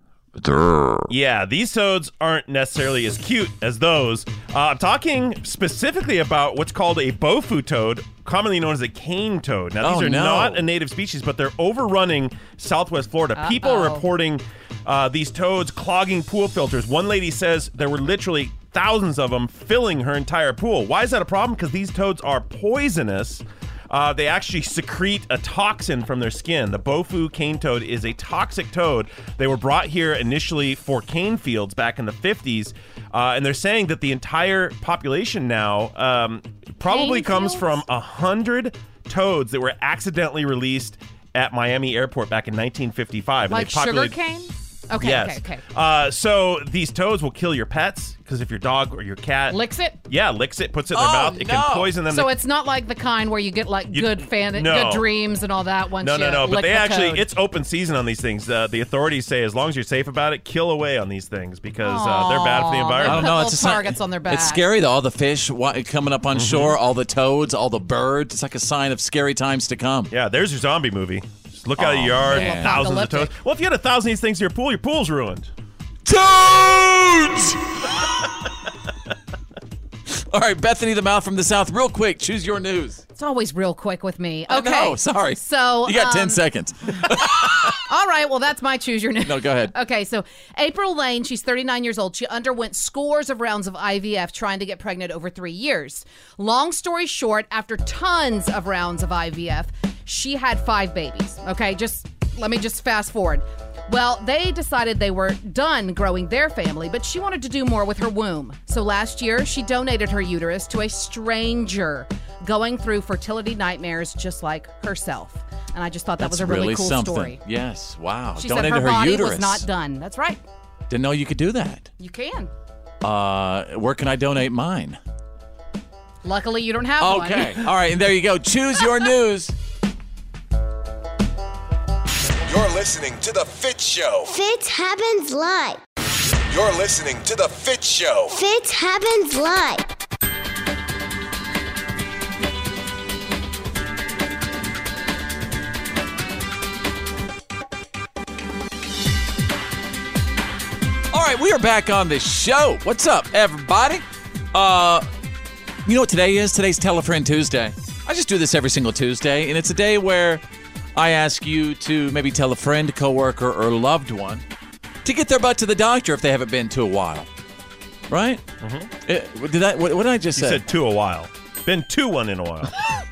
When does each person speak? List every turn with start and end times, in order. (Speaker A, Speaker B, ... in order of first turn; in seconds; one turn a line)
Speaker A: 0.4-1.1
Speaker B: 1.1-44.1
Speaker A: 9.8-10.6
Speaker C: 13.4-14.0
Speaker C: 36.9-37.8
Speaker C: 43.5-45.6
Speaker B: 45.0-52.3
Speaker C: 49.5-50.0
Speaker A: 50.9-51.9
Speaker C: 52.1-57.2
Speaker B: 53.9-55.1
Speaker B: 56.0-63.3
Speaker C: 61.8-64.6
Speaker A: 63.0-70.1
Speaker B: 66.3-66.8
Speaker B: 70.1-75.5
Speaker A: 71.8-72.9
Speaker C: 72.2-73.3
Speaker A: 76.1-77.6
Speaker A: 80.1-83.0
Speaker C: 83.2-86.4
Speaker A: 84.5-87.8
Speaker C: 87.1-117.4
Speaker A: 89.2-89.7
Speaker A: 116.2-119.7
Speaker C: 118.4-120.4
Speaker A: 120.9-121.9
Speaker C: 122.0-122.5
Speaker A: 123.0-125.0
Speaker C: 126.2-127.7
Speaker A: 127.0-129.5
Speaker D: 132.5-134.3
Speaker E: 134.3-135.8
Speaker D: 136.5-138.4
Speaker E: 138.3-139.8
Speaker A: 151.1-155.1
Speaker A: 155.8-160.4
Speaker A: 160.9-164.4
Speaker A: 165.0-167.3
Speaker A: 168.1-168.4
Speaker B: 168.6-168.9
Speaker A: 169.1-170.6
Speaker B: 170.3-172.7